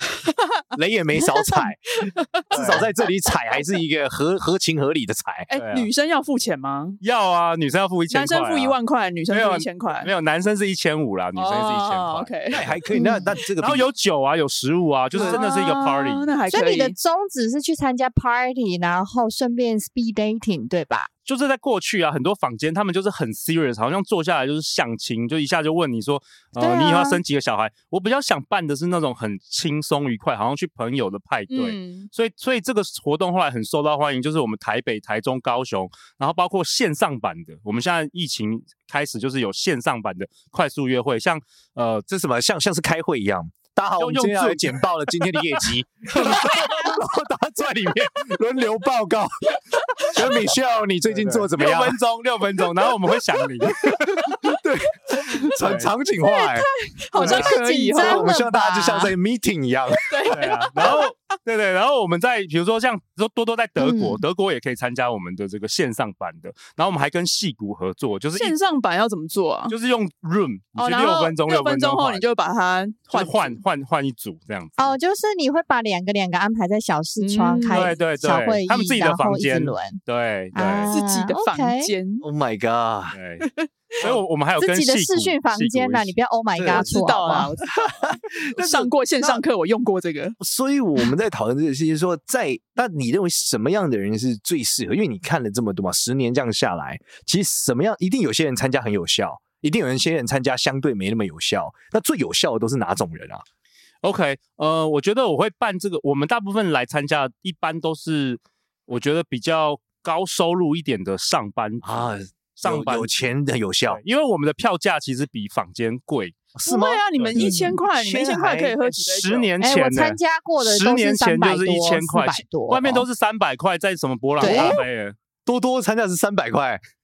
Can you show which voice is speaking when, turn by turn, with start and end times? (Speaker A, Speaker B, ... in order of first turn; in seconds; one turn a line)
Speaker A: 0.3-0.6
Speaker B: 0.7-5.5
Speaker A: 2.0-2.8
Speaker C: 2.5-2.8
Speaker A: 5.5-7.0
Speaker C: 5.5-5.9
Speaker C: 7.0-8.8
Speaker A: 8.1-10.1
Speaker C: 9.3-12.8
Speaker A: 11.4-12.6
Speaker B: 12.5-13.9
Speaker D: 12.9-13.3
Speaker C: 13.6-16.3
Speaker A: 15.1-17.0
Speaker B: 15.2-15.4
Speaker D: 16.5-21.1
Speaker C: 21.3-42.1
Speaker D: 26.6-27.2
Speaker A: 31.5-32.1
Speaker B: 42.1-52.0
Speaker C: 44.0-44.8
Speaker C: 46.2-46.5
Speaker C: 51.1-54.3
Speaker B: 53.7-56.7
Speaker C: 55.6-55.9
Speaker A: 56.3-58.3
Speaker D: 57.1-59.1
Speaker C: 57.2-57.5
Speaker B: 57.9-60.4
Speaker A: 60.1-61.1
Speaker C: 60.3-68.5
Speaker D: 63.8-64.2
Speaker A: 68.3-69.8
Speaker C: 69.7-72.2
Speaker A: 70.8-73.6
Speaker C: 73.1-74.9
Speaker D: 74.8-80.0
Speaker A: 77.2-78.0
Speaker C: 77.7-80.9
Speaker D: 80.5-81.9
Speaker A: 80.9-82.2
Speaker B: 82.2-83.2
Speaker C: 83.1-83.5
Speaker C: 84.0-86.2
Speaker D: 84.6-87.5
Speaker B: 86.5-86.9
Speaker A: 86.7-90.4
Speaker B: 87.9-89.4
Speaker B: 90.4-103.4
Speaker C: 104.0-113.1
Speaker B: 111.8-114.0
Speaker C: 113.9-116.3
Speaker B: 116.5-118.7
Speaker A: 116.7-119.5
Speaker C: 117.2-125.2
Speaker D: 119.6-123.0
Speaker B: 124.4-124.8
Speaker D: 124.4-124.8
Speaker B: 125.5-126.8